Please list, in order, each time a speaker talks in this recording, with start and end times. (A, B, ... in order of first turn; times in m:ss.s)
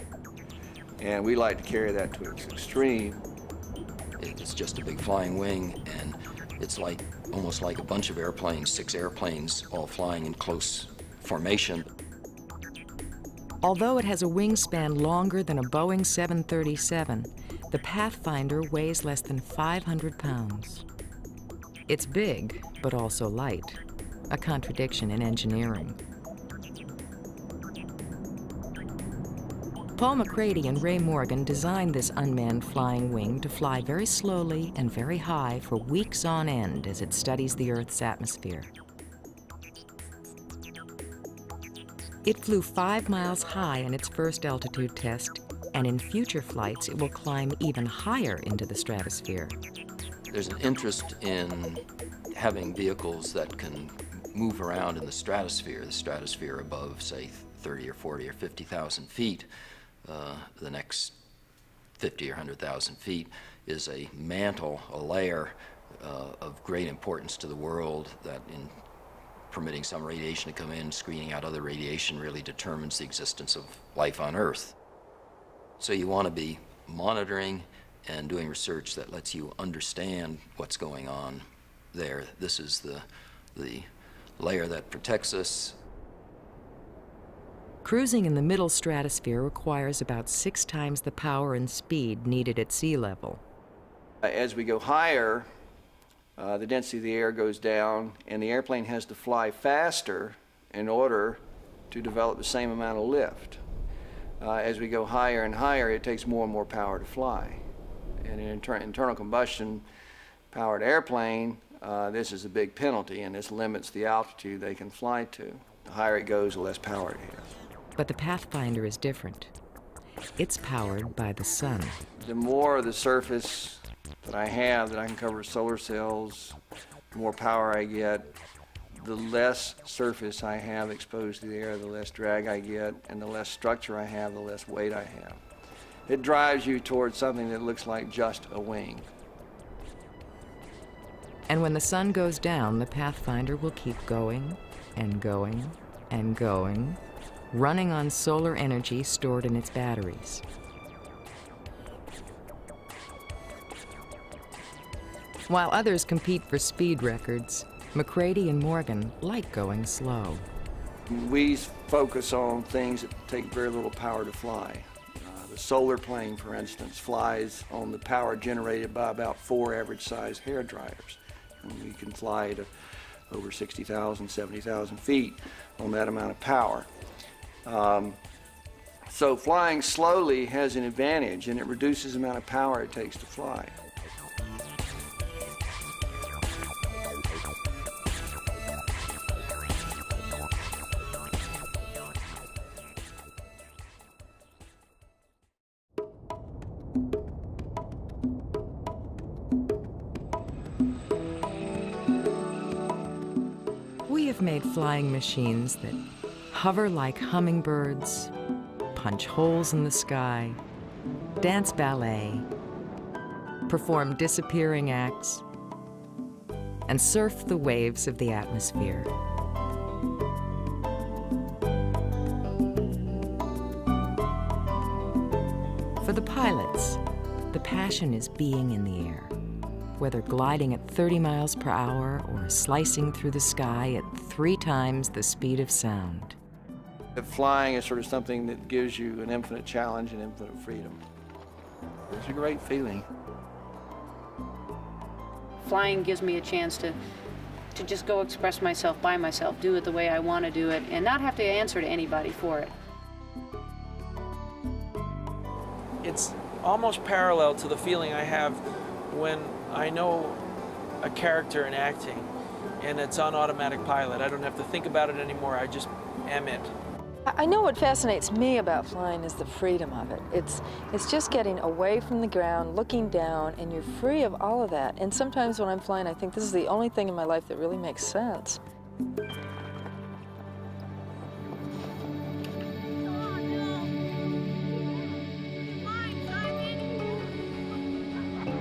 0:01.0-0:03.2 A
0:04.2-0:11.8 B
0:13.6-0:20.8 C
0:21.9-0:23.8 C
0:24.3-0:26.0 C
0:30.0-0:38.7 C
0:42.2-0:49.6 C
0:50.3-0:59.5 B
1:00.0-1:01.1 B
1:02.0-1:08.7 B
1:09.5-1:14.8 B
1:15.8-1:25.8 B
1:27.8-1:33.4 C
1:34.2-1:35.5 A
1:36.4-1:43.6 A
1:44.4-1:47.6 A
1:48.2-1:49.8 A
1:50.5-1:57.5 A
1:58.0-1:59.5 C
2:00.4-2:02.0 C
2:02.2-2:06.6 A
2:07.1-2:08.3 A
2:09.0-2:15.4 A
2:16.1-2:19.1 A
2:21.5-2:27.0 C
2:27.5-2:30.4 C
2:35.5-2:40.4 C
2:41.1-2:52.7 A
2:53.3-2:56.9 A
2:57.6-2:58.2 A
2:59.1-3:03.8 A
3:24.1-3:26.0 C
3:26.5-3:28.3 C
3:28.9-3:30.6 C
3:31.4-3:32.5 C
3:33.7-3:35.4 C
3:36.9-3:39.1 C
3:46.0-3:47.0 C
3:47.5-3:49.3 C
3:50.0-3:56.4 C
3:57.2-4:01.0 A
4:02.1-4:03.1 A
4:05.6-4:07.0 D
4:07.7-4:12.7 D
4:16.0-4:20.4 E
4:21.0-4:22.2 E
4:22.8-4:26.7 E
4:27.3-4:38.6 F